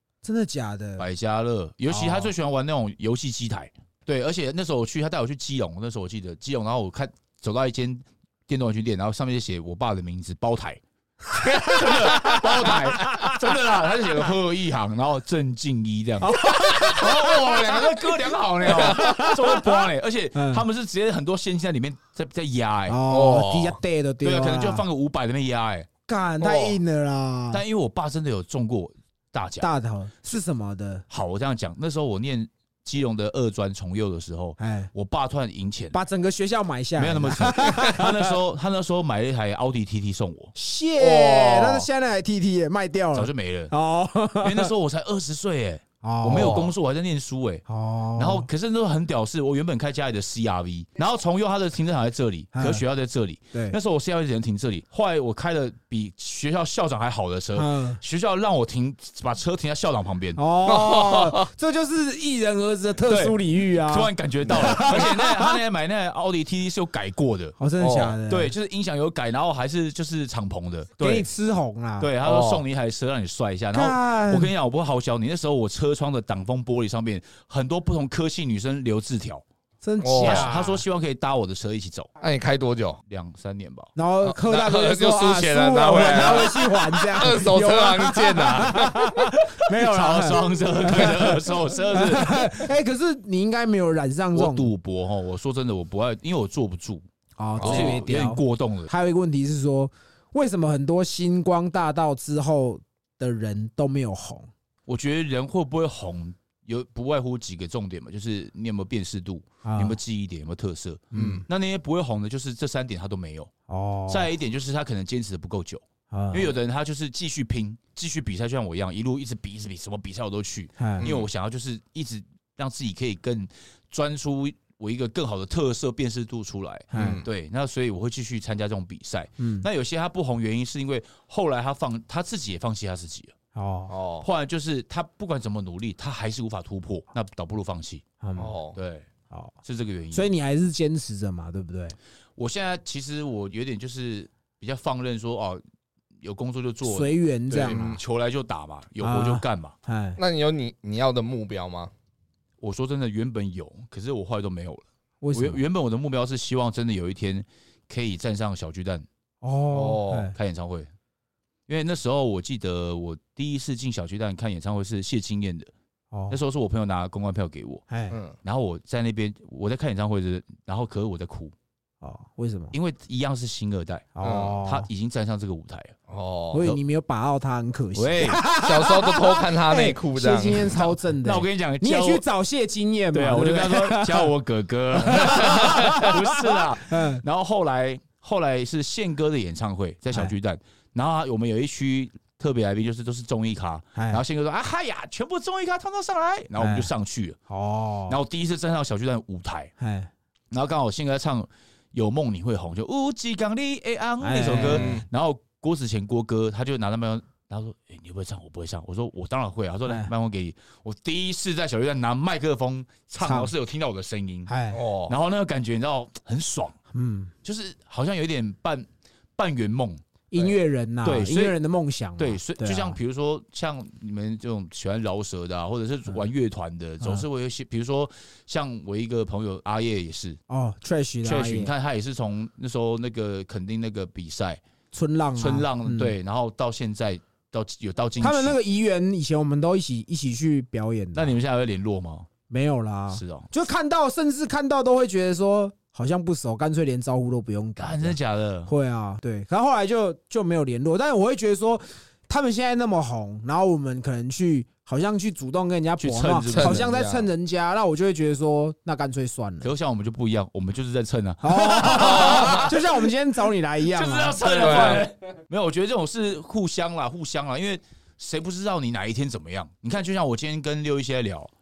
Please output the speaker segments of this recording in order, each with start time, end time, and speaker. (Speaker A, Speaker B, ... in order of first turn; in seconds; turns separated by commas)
Speaker A: 0.2-1.1, Speaker B: 1.0-10.8, Speaker A: 1.9-2.3, Speaker A: 11.3-13.4, Speaker B: 11.3-23.0, Speaker A: 16.2-17.9, Speaker A: 18.6-20.6, Speaker A: 22.9-24.8, Speaker C: 23.1-23.8, Speaker B: 24.2-25.9, Speaker A: 26.1-27.6, Speaker C: 26.4-26.8, Speaker B: 27.5-29.7, Speaker A: 29.6-31.1, Speaker B: 31.1-36.0, Speaker A: 34.6-34.9, Speaker A: 35.9-38.4, Speaker B: 37.0-40.5, Speaker A: 40.5-44.7, Speaker C: 41.0-41.7, Speaker B: 43.1-43.7, Speaker B: 44.4-47.6, Speaker A: 46.0-46.7, Speaker C: 46.3-46.7, Speaker A: 47.7-48.5, Speaker B: 48.2-60.4, Speaker A: 52.5-52.8, Speaker A: 53.5-53.8, Speaker A: 57.5-58.0, Speaker A: 60.4-65.6, Speaker C: 60.6-61.5, Speaker B: 63.0-67.6, Speaker A: 67.6-68.5, Speaker C: 67.8-68.2, Speaker B: 68.3-71.3, Speaker A: 71.0-72.1, Speaker B: 72.0-79.4, Speaker C: 72.2-72.6, Speaker A: 73.7-74.5, Speaker A: 79.8-80.8, Speaker C: 80.0-80.5, Speaker B: 80.2-82.1, Speaker C: 82.2-83.0, Speaker B: 83.1-83.9, Speaker A: 84.0-94.7, Speaker C: 84.2-89.0, Speaker B: 89.0-92.6, Speaker B: 94.3-97.0, Speaker A: 97.4-104.5, Speaker B: 97.6-98.9, Speaker C: 97.6-98.0, Speaker B: 104.9-113.5, Speaker A: 109.6-110.0, Speaker A: 111.1-111.5, Speaker C: 111.1-111.4, Speaker A: 113.7-114.3, Speaker B: 114.1-133.3, Speaker A: 116.1-116.5, Speaker A: 120.8-121.1, Speaker C: 121.0-121.3, Speaker A: 126.9-127.2, Speaker C: 126.9-127.3, Speaker A: 129.4-129.7, Speaker A: 133.6-133.9, Speaker C: 133.9-134.3, Speaker B: 134.2-138.1, Speaker A: 138.2-138.6, Speaker C: 138.4-138.8, Speaker B: 138.7-139.1, Speaker A: 139.3-139.6, Speaker B: 139.6-140.3, Speaker A: 140.1-141.9, Speaker B: 142.4-145.6, Speaker B: 146.2-149.7, Speaker A: 146.8-148.0, Speaker C: 147.7-148.0, Speaker A: 149.0-150.2, Speaker C: 150.2-151.9, Speaker B: 152.6-159.1, Speaker A: 155.2-155.6, Speaker A: 159.4-160.3, Speaker C: 159.7-160.3, Speaker B: 160.3-160.9, Speaker B: 161.7-165.7, Speaker A: 166.1-166.4, Speaker B: 166.3-167.8, Speaker A: 167.9-168.2, Speaker C: 168.1-168.4, Speaker B: 168.4-171.5, Speaker A: 172.0-172.7, Speaker B: 172.7-175.9, Speaker A: 174.1-174.9, Speaker C: 174.2-174.6, Speaker C: 176.1-176.8, Speaker A: 176.5-184.3, Speaker B: 177.9-178.4, Speaker C: 178.6-180.8, Speaker B: 180.8-182.2, Speaker B: 183.1-197.4, Speaker A: 185.0-187.2, Speaker A: 193.9-194.2, Speaker A: 196.6-196.9, Speaker A: 197.5-198.2, Speaker B: 198.1-199.7, Speaker A: 199.8-200.1, Speaker B: 200.5-214.5, Speaker A: 204.2-205.0, Speaker C: 204.5-205.0, Speaker A: 213.2-213.5, Speaker A: 214.5-214.8, Speaker C: 214.7-215.1, Speaker B: 215.1-216.8, Speaker A: 216.9-217.3, Speaker B: 217.4-220.0, Speaker A: 220.3-223.0, Speaker B: 221.0-221.6, Speaker B: 222.2-230.4, Speaker A: 230.5-231.7, Speaker B: 231.2-234.6, Speaker A: 234.9-236.1, Speaker B: 235.4-238.6, Speaker A: 238.2-241.4, Speaker B: 241.1-242.3, Speaker A: 242.5-259.7, Speaker B: 243.1-243.5, Speaker B: 247.8-248.7, Speaker B: 256.0-256.9, Speaker C: 256.4-257.3, Speaker B: 259.6-262.8, Speaker A: 261.4-265.1, Speaker C: 261.9-262.7, Speaker B: 263.9-271.5, Speaker C: 264.5-265.1